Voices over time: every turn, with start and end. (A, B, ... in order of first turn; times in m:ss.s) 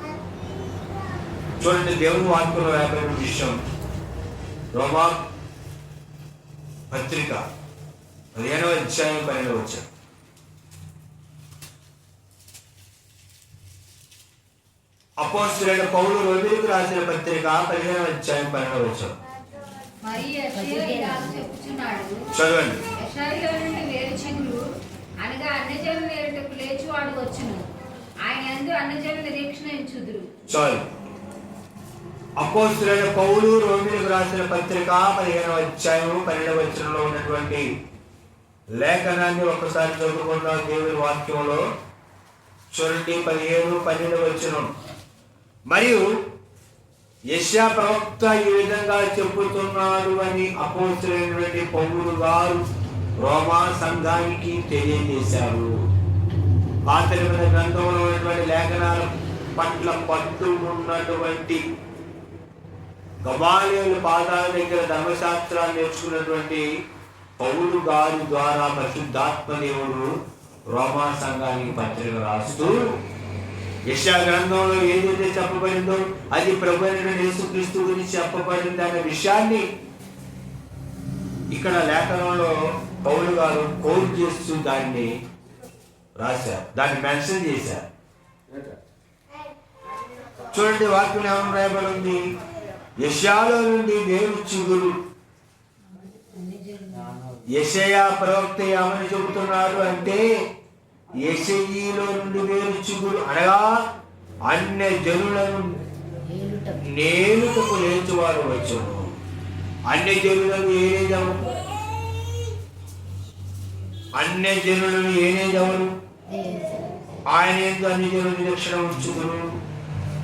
0:01.6-0:03.6 A
0:04.7-0:05.3 A
0:06.9-0:07.4 A
0:08.3-0:09.9 A
0:15.2-0:19.1 A
0:20.0-0:22.2 B
0:20.5-0:21.4 C
0:22.3-0:22.8 A
0:23.0-0:24.6 B
0:25.2-0:27.7 B
0:28.2-0:30.3 B
0:30.5-0:30.8 A
0:32.4-0:37.7 A
0:38.7-0:41.6 A
0:42.7-0:44.7 A
0:45.7-0:46.0 A
0:47.3-0:52.6 A
0:53.2-0:55.7 A
0:56.9-1:01.6 A
1:03.2-1:06.6 A
1:07.4-1:10.1 A
1:10.7-1:12.9 A
1:13.9-1:19.6 A
1:21.5-1:25.1 A
1:26.2-1:27.8 A
1:30.5-1:32.2 A
1:33.0-1:35.0 A
1:37.5-1:40.2 A
1:41.1-1:43.7 A
1:44.5-1:45.8 A
1:46.3-1:46.8 C
1:46.9-1:49.1 A
1:49.9-1:51.6 A
1:54.2-1:55.9 A
1:56.3-1:57.2 C
1:57.3-1:59.4 A